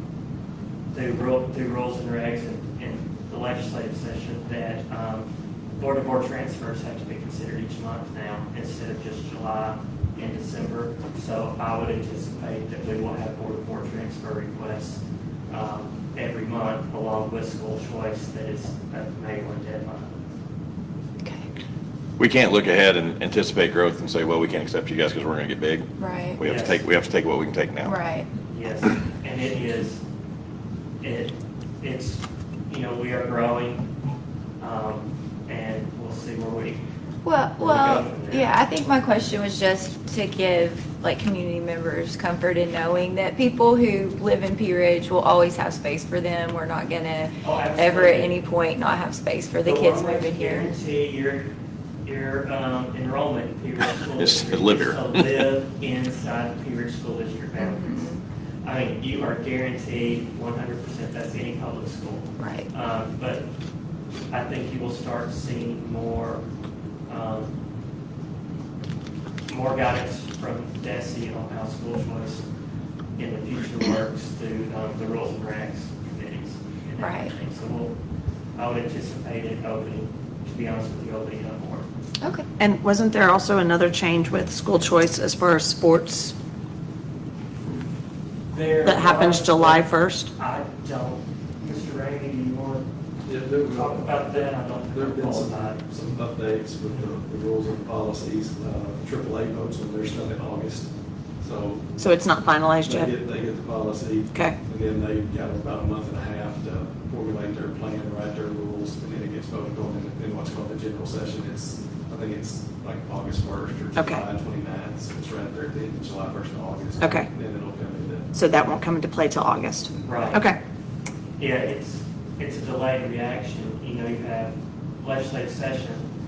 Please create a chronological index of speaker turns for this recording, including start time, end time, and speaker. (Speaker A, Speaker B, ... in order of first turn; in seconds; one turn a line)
Speaker A: 0.9-20.2
Speaker B: 22.2-27.9
Speaker C: 26.0-26.4
Speaker A: 26.4-26.8
Speaker C: 27.8-28.3
Speaker A: 28.5-30.0
Speaker A: 31.0-33.9
Speaker A: 34.6-36.8
Speaker C: 37.2-50.7
Speaker A: 37.6-38.5
Speaker A: 47.4-48.3
Speaker A: 49.6-51.5
Speaker A: 52.0-63.5
Speaker B: 54.2-55.0
Speaker C: 57.6-58.2
Speaker C: 62.4-62.7
Speaker A: 64.3-66.5
Speaker A: 67.1-67.5
Speaker A: 69.5-72.5
Speaker A: 73.2-78.0
Speaker C: 77.0-77.3
Speaker A: 78.5-81.9
Speaker C: 82.2-82.5
Speaker D: 82.6-86.3
Speaker A: 88.5-92.8
Speaker D: 88.8-90.3
Speaker E: 93.2-100.9
Speaker A: 93.6-95.8
Speaker E: 101.4-101.9
Speaker D: 102.0-103.1
Speaker E: 102.8-118.3
Speaker D: 114.0-114.2
Speaker D: 117.0-117.3
Speaker D: 118.3-120.6
Speaker A: 120.0-120.5
Speaker A: 121.4-126.1